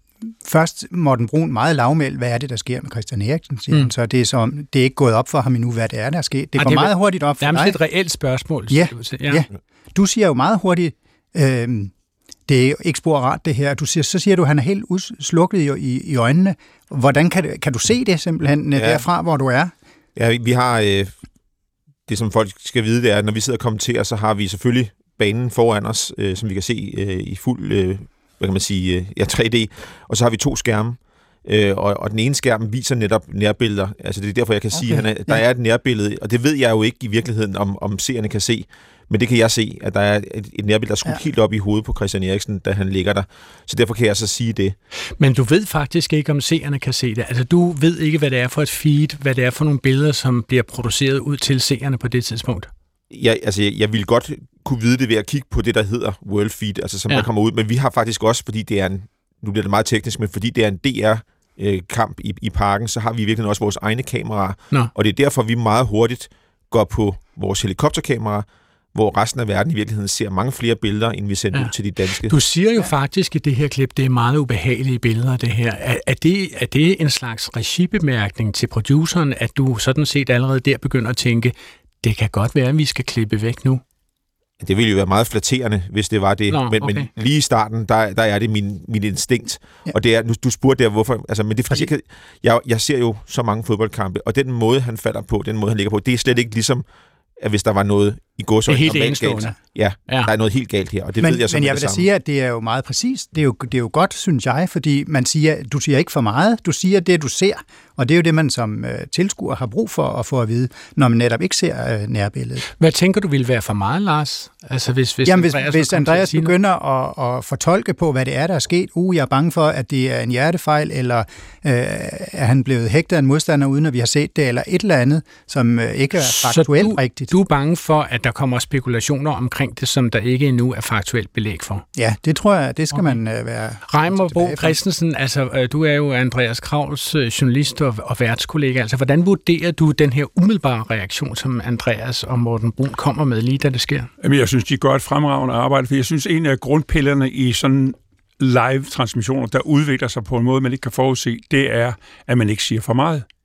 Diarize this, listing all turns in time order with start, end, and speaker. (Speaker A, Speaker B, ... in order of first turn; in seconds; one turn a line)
Speaker A: 0.4-7.8
Speaker B: 6.6-9.4
Speaker A: 8.7-11.9
Speaker A: 12.5-19.7
Speaker C: 18.8-19.0
Speaker C: 20.2-21.2
Speaker C: 22.1-44.8
Speaker A: 34.7-35.4
Speaker B: 45.2-52.7
Speaker C: 53.1-72.4
Speaker B: 72.3-83.8
Speaker C: 84.6-96.8
Speaker B: 86.5-87.1
Speaker C: 97.4-102.1
Speaker B: 98.7-99.6
Speaker A: 101.2-112.7
Speaker B: 112.8-116.5
Speaker A: 115.3-127.3
Speaker B: 126.2-131.8
Speaker A: 131.9-134.8
Speaker B: 132.9-133.2
Speaker B: 133.9-144.1
Speaker D: 144.2-153.3